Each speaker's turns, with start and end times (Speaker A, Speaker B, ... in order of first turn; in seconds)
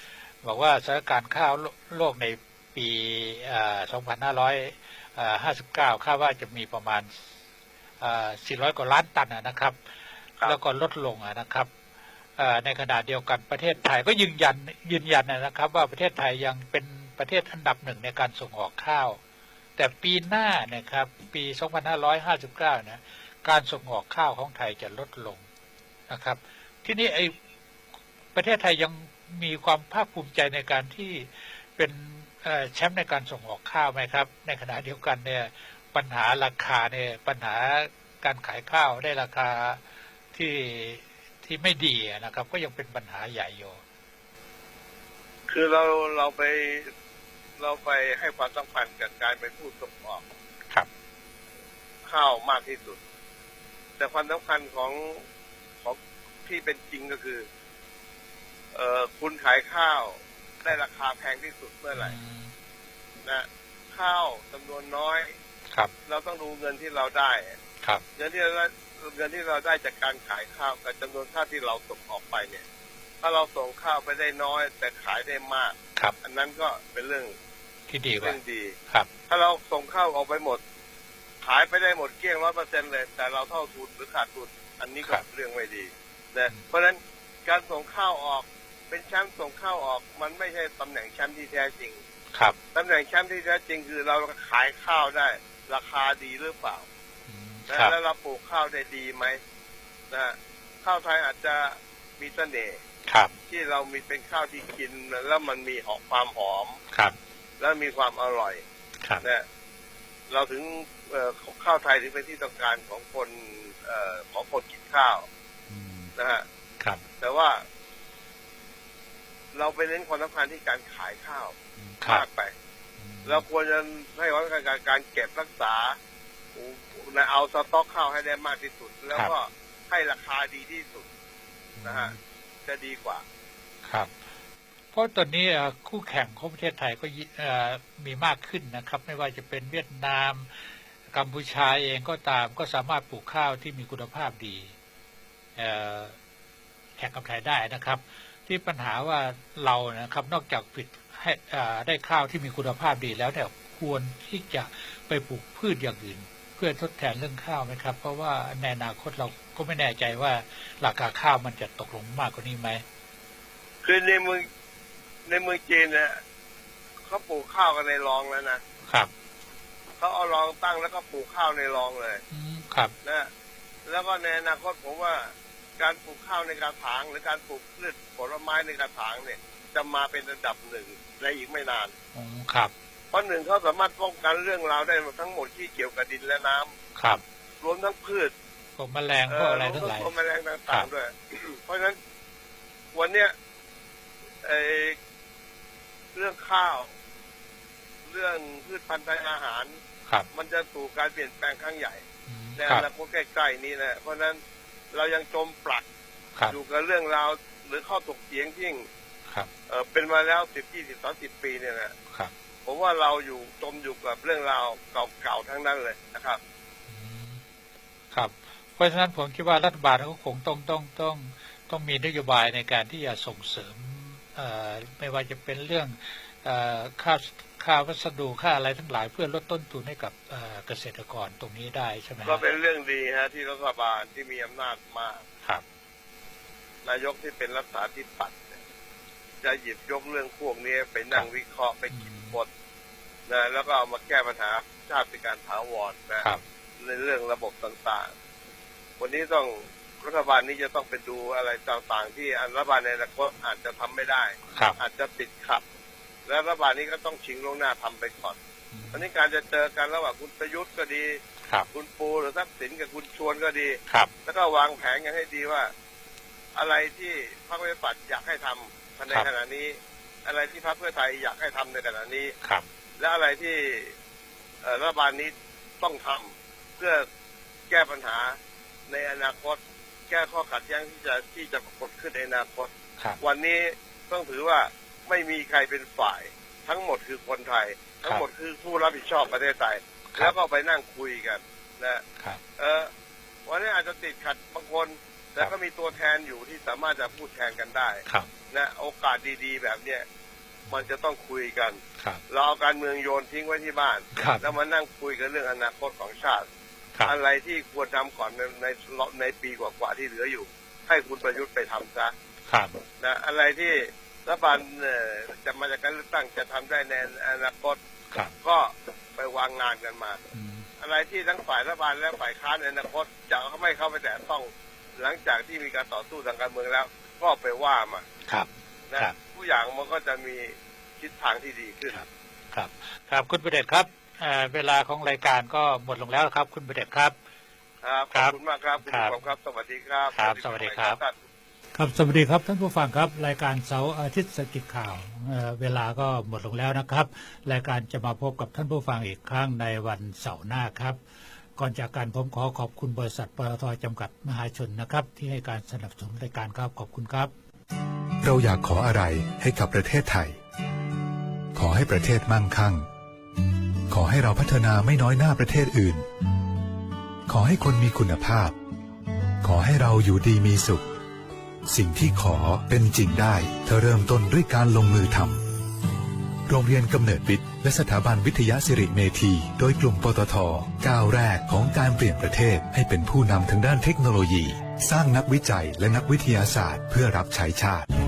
Speaker A: 0.4-7.2, 8.0-9.8, 10.4-11.7, 12.4-19.2, 19.8-25.4, 26.1-27.3, 28.3-39.8, 40.3-43.8, 61.9-62.5, 77.9-78.4, 97.3-97.9, 103.1-103.3, 115.7-116.1, 121.8-122.2, 123.0-123.4, 131.8-132.2, 134.9-144.7, 145.6-146.2, 147.0-162.8, 172.3-172.9, 182.1-182.7, 187.0-187.2, 188.8-190.1, 202.3-202.8, 216.9-217.4, 218.1-232.4, 241.9-242.4, 254.5-254.8, 258.7-259.0, 304.1-304.5, 312.5-312.8, 320.3-320.6, 328.3-329.1, 331.9-337.1, 338.1-339.1, 340.1-341.0, 341.7-351.0, 351.6-357.3
Speaker B: 45.5-46.9, 47.6-50.2, 52.0-53.0, 54.0-55.2, 55.8-57.4, 58.7-62.1, 63.2-65.3, 66.1-67.6, 68.2-72.6, 73.2-77.3, 78.2-78.7, 79.3-80.6, 81.4-92.0, 92.7-96.8, 97.7-99.4, 100.1-102.8, 103.5-106.8, 107.6-108.6, 110.3-115.3, 116.2-116.4, 117.2-117.6, 119.5-122.5, 123.2-126.0, 126.5-131.1, 131.8-132.1, 132.7-133.2, 163.8-164.4, 165.3-166.2, 167.1-168.6, 170.0-172.2, 173.0-173.3, 173.9-181.9, 183.1-186.7, 187.6-188.3, 189.3-192.0, 192.9-193.3, 194.4-195.0, 196.1-196.9, 198.1-199.8, 200.3-202.0, 202.6-204.4, 204.9-205.8, 206.5-208.9, 209.7-211.9, 212.6-216.4, 232.2-235.2, 236.8-238.6, 239.4-242.5, 243.3-246.2, 246.8-248.1, 249.0-255.6, 256.3-258.4, 258.9-261.2, 261.7-265.7, 266.6-272.3, 273.0-273.9, 274.6-277.1, 277.7-278.4, 278.9-292.0, 292.6-292.9, 293.5-300.0, 300.7-306.4, 307.0-312.1, 313.0-317.8, 318.4-320.2, 320.8-328.0, 328.9-332.0, 337.8-341.2
Speaker C: 358.2-360.4, 361.5-362.9, 363.9-366.0, 367.3-368.6, 369.4-370.9, 371.7-375.4, 376.5-387.9